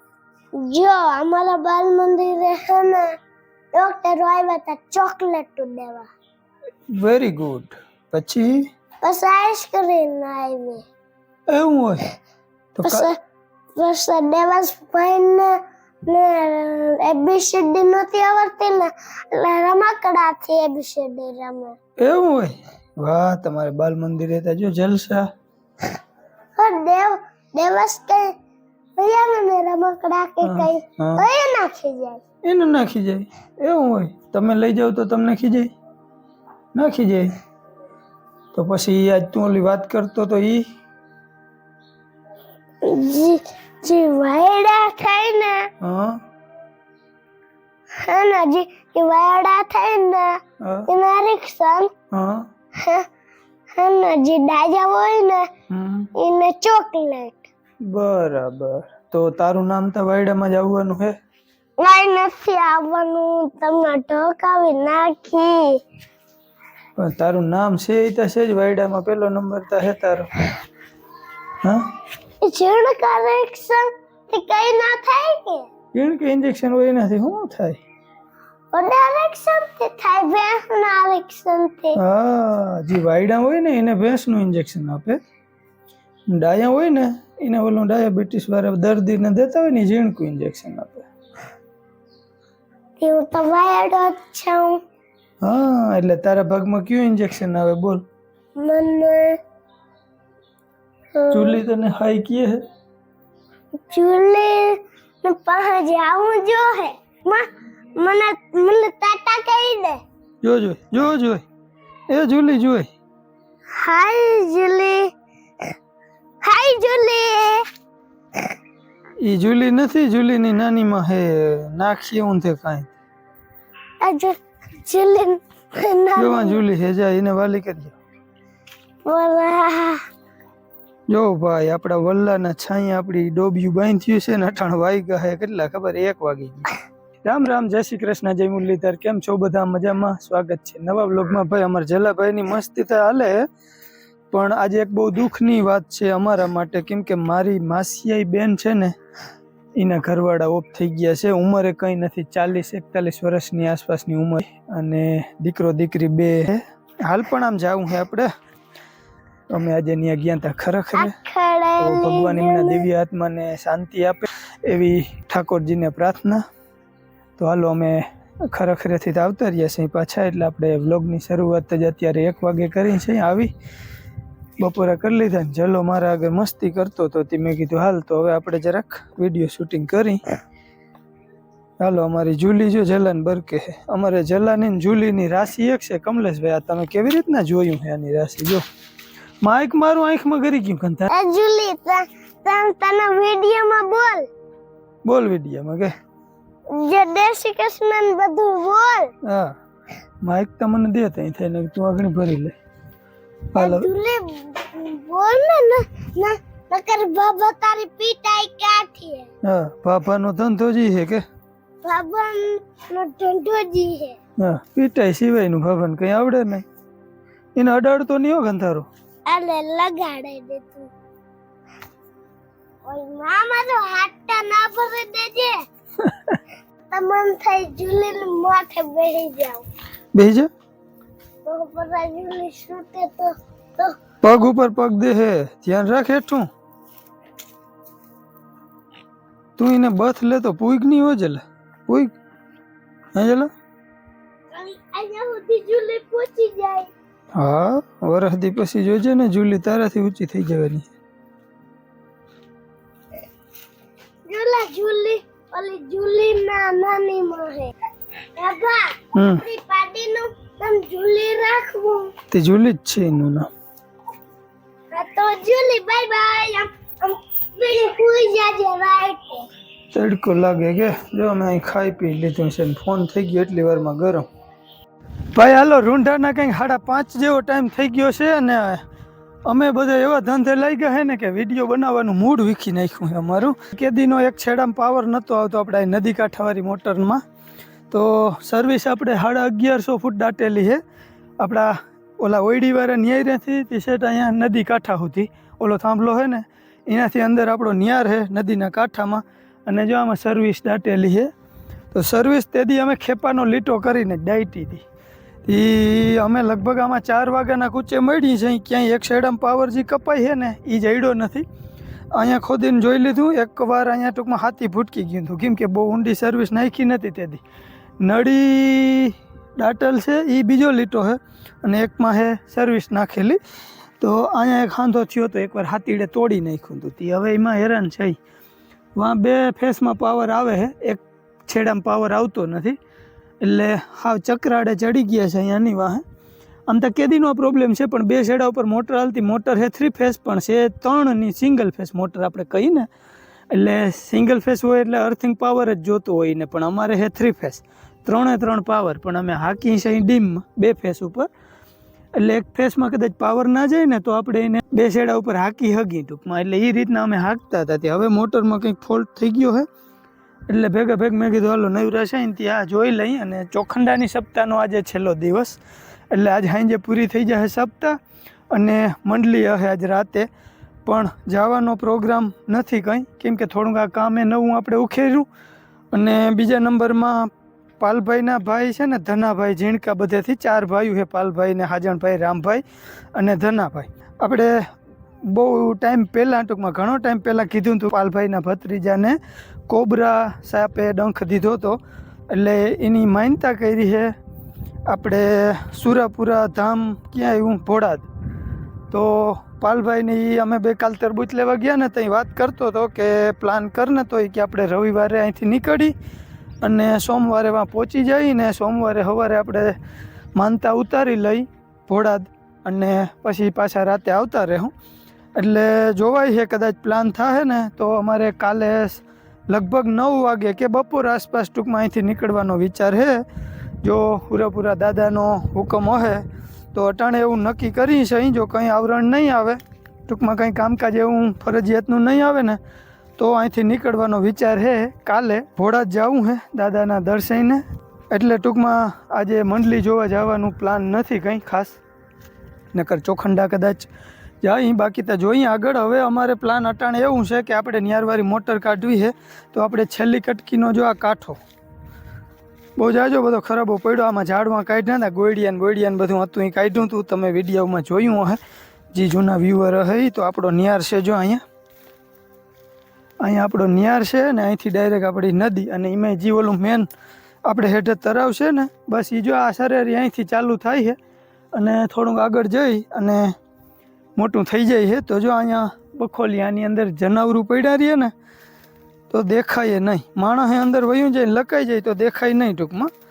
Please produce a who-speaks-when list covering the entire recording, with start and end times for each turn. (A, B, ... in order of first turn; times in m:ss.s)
0:00.6-0:03.1 A
0:03.7-0:06.1 A
0:06.9-0:08.6 B
0:09.0-0:10.8 A
0:11.5-0:12.1 B
0:12.7-0:13.1 B
0:12.8-0:13.2 A
0:13.7-0:21.8 A
0:22.0-0:25.3 B
0:26.6-0:28.3 A
0:29.0-0:32.2 A
0:30.4-0:31.2 B
0:32.4-0:35.7 B
0:36.7-0:37.3 B
0:38.5-0:40.6 B
0:42.8-0:45.7 A
0:45.8-0:46.2 B
0:48.0-0:51.9 A
0:50.6-0:50.9 B
0:52.1-0:52.4 B
0:52.8-0:53.0 A
0:53.7-0:55.5 A
0:55.7-0:56.1 B
0:56.2-0:57.5 A
0:57.9-1:01.1 B
1:01.8-1:05.8 A
1:07.0-1:10.3 B
1:12.4-1:15.7 A
1:15.9-1:17.8 B
1:18.7-1:22.0 A
1:22.0-1:25.2 B
1:26.3-1:31.1 B
1:33.0-1:34.8 A
1:35.4-1:38.0 B
1:38.6-1:39.4 A
1:41.1-1:41.6 A
1:41.3-1:42.6 B
1:43.8-1:50.0 A
1:50.4-1:51.4 B
1:52.1-1:52.9 B
1:53.7-1:55.1 A
1:56.4-1:57.6 A
1:59.2-2:02.9 B
2:04.0-2:06.6 A
2:06.2-2:08.0 B
2:09.0-2:10.0 A
2:11.1-2:16.7 B
2:17.2-2:23.4 B
2:24.3-2:28.9 B
2:29.8-2:38.3 B
2:39.5-2:41.1 B
2:40.9-2:42.8 A
2:41.8-2:46.4 B
2:47.4-2:53.5 B
2:54.6-3:00.2 B
3:01.8-3:08.6 B
3:09.4-3:11.1 B
3:11.1-3:14.3 A
3:15.0-3:15.9 B
3:16.7-3:19.1 A
3:19.2-3:19.5 B
3:20.2-3:22.6 B
3:23.5-3:23.9 B
3:23.6-3:29.3 A
3:29.4-3:31.2 B
3:31.8-3:34.2 A
3:34.4-3:36.6 B
3:37.6-3:38.9 B
3:39.3-3:40.9 A
3:42.8-3:45.6 A
3:46.0-3:46.4 B
3:46.9-3:49.6 A
3:50.1-3:50.5 B
3:51.4-3:54.0 A
3:54.2-3:56.4 B
3:59.6-4:02.1 B
4:03.1-4:03.5 B
4:04.5-4:06.9 A
4:07.3-4:10.9 B
4:14.3-4:17.7 A
4:18.3-4:22.1 A
4:19.1-4:19.4 B
4:22.3-4:23.5 B
4:24.9-4:29.5 A
4:29.9-4:34.2 B
4:35.3-4:38.8 B
4:39.4-4:47.2 B
4:47.9-4:50.8 B
4:51.4-5:01.3 B
5:01.9-5:04.8 B
5:05.4-5:11.4 B
5:12.1-5:17.4 B
5:18.0-5:23.4 B
5:24.0-5:28.2 B
5:29.0-5:32.8 B
5:33.4-5:36.0 B
5:36.7-5:42.9 B
5:43.5-5:51.3 B
5:52.1-5:59.6 B
6:00.5-6:05.6 B
6:06.1-6:08.0 B
6:08.5-6:10.3 B
6:10.8-6:15.3 B
6:15.9-6:22.6 B
6:23.1-6:24.6 B
6:25.2-6:34.1 B
6:34.9-6:38.1 B
6:38.9-6:45.9 B
6:46.6-6:49.8 B
6:50.4-6:54.7 B
6:55.4-7:03.2 B
7:03.8-7:12.6 B
7:13.2-7:21.8 B
7:22.7-7:23.9 B
7:24.4-7:31.4 B
7:32.8-7:38.4 B
7:38.9-7:41.4 B
7:43.2-7:46.9 B
7:47.4-7:51.0 B
7:51.5-7:53.3 B
7:54.2-7:58.1 B
7:59.1-8:02.9 B